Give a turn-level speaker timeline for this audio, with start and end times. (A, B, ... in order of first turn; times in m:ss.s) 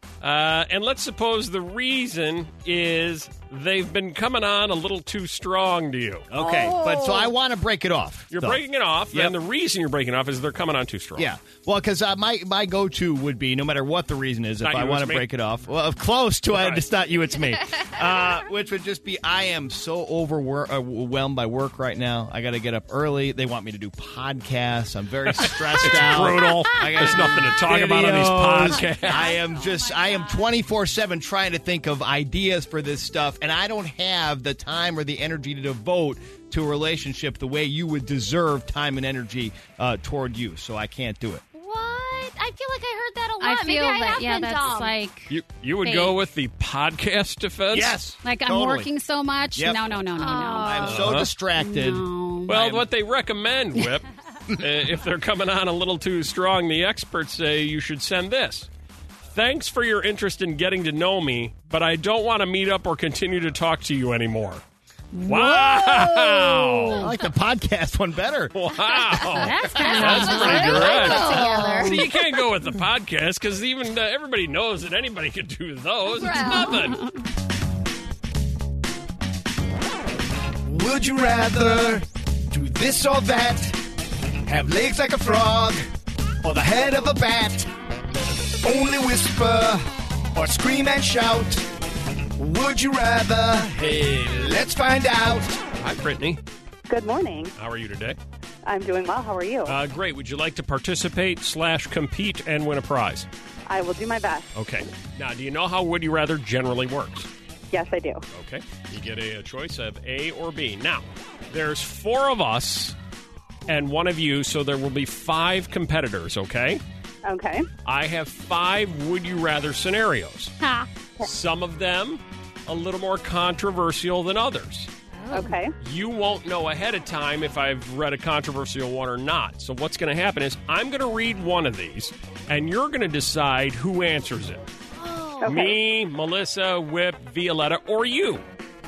0:00.2-0:06.3 A
0:06.3-0:09.3 B
0:06.4-0:07.3 C
0:08.3-0:11.3 A
0:11.2-0:41.4 B
0:14.6-0:15.3 A
0:16.5-0:16.8 A
0:25.3-0:29.3 A
0:29.0-0:30.6 D
0:41.5-0:44.9 C
0:43.4-0:45.3 D
0:45.3-0:48.0 A
0:45.8-0:46.1 D
0:47.7-0:48.9 B
0:48.2-0:50.9 D
0:49.5-0:52.8 B
0:50.2-0:51.2 C
0:50.8-0:51.3 A
0:51.6-0:52.6 D
0:52.5-0:58.7 A
0:59.3-1:04.6 A
1:05.1-1:08.6 B
1:05.2-1:07.0 A
1:08.5-1:17.0 A
1:09.4-1:11.9 D
1:09.8-1:12.1 C
1:09.8-1:11.8 B
1:16.1-1:16.9 C
1:16.4-1:17.0 D
1:20.6-1:23.8 E
1:24.4-1:25.8 E
1:26.4-1:27.7 E
1:28.6-1:31.7 E
1:32.4-1:35.6 E
1:35.8-1:36.4 A
1:36.9-1:37.5 F
1:37.6-1:38.2 A
1:38.6-1:39.8 F
1:39.6-1:43.3 A
1:43.7-1:44.5 F
1:44.5-1:47.3 A
1:47.7-1:48.2 F
1:48.3-1:53.0 A
1:53.7-1:56.8 A
1:57.2-1:57.7 F
1:57.8-2:00.5 A
2:01.2-2:04.9 A
2:05.2-2:05.5 C
2:05.3-2:05.7 F
2:05.8-2:14.7 A
2:15.0-2:15.7 C
2:15.4-2:15.8 F
2:15.4-2:18.4 A